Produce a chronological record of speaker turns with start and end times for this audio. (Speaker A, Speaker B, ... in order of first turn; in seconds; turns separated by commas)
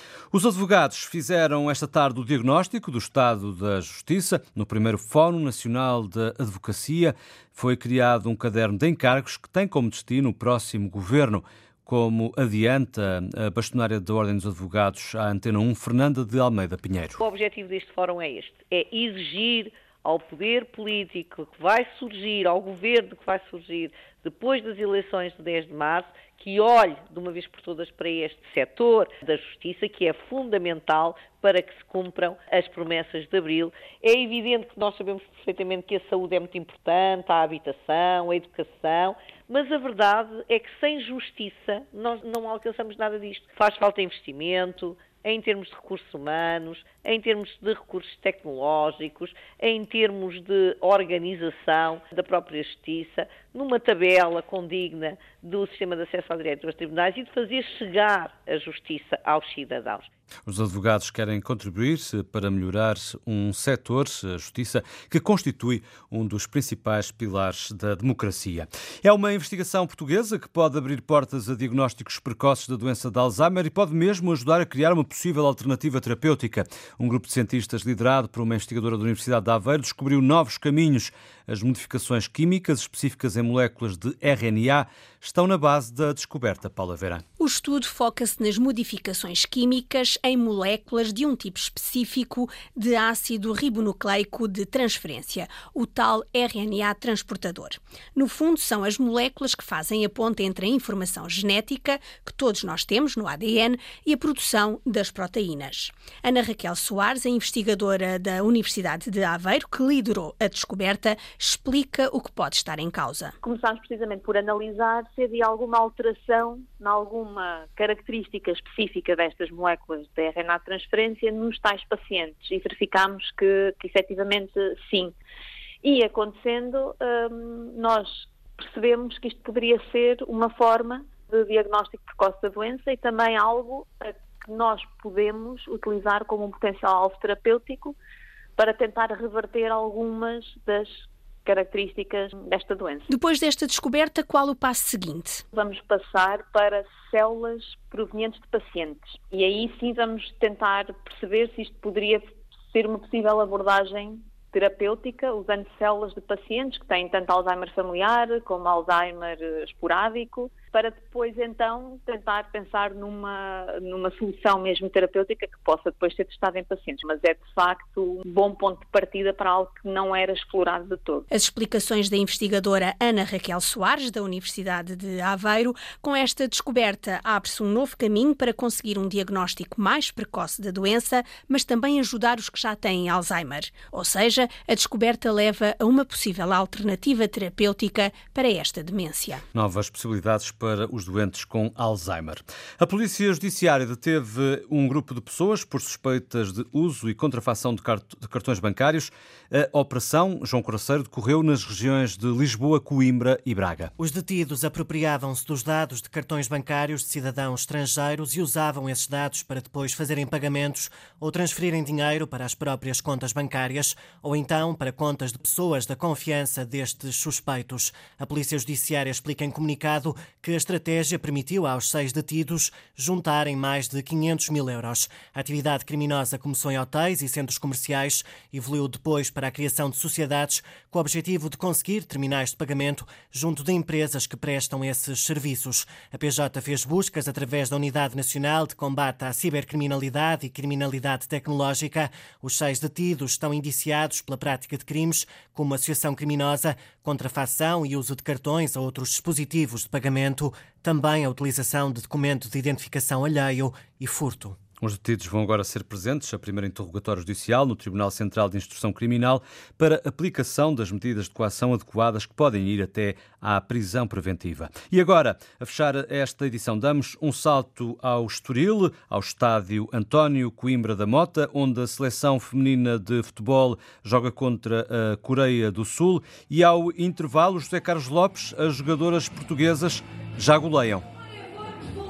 Speaker A: 0.3-17.2, Speaker B: 17.2-60.1, Speaker A: 60.5-87.2, Speaker C: 87.4-113.3, Speaker D: 113.4-125.1, Speaker D: 125.8-137.9, Speaker D: 138.6-143.1, Speaker C: 143.1-145.4, Speaker D: 145.5-171.2, Speaker C: 171.3-189.4, Speaker A: 189.5-203.9, Speaker E: 204.0-254.6, Speaker A: 254.8-281.0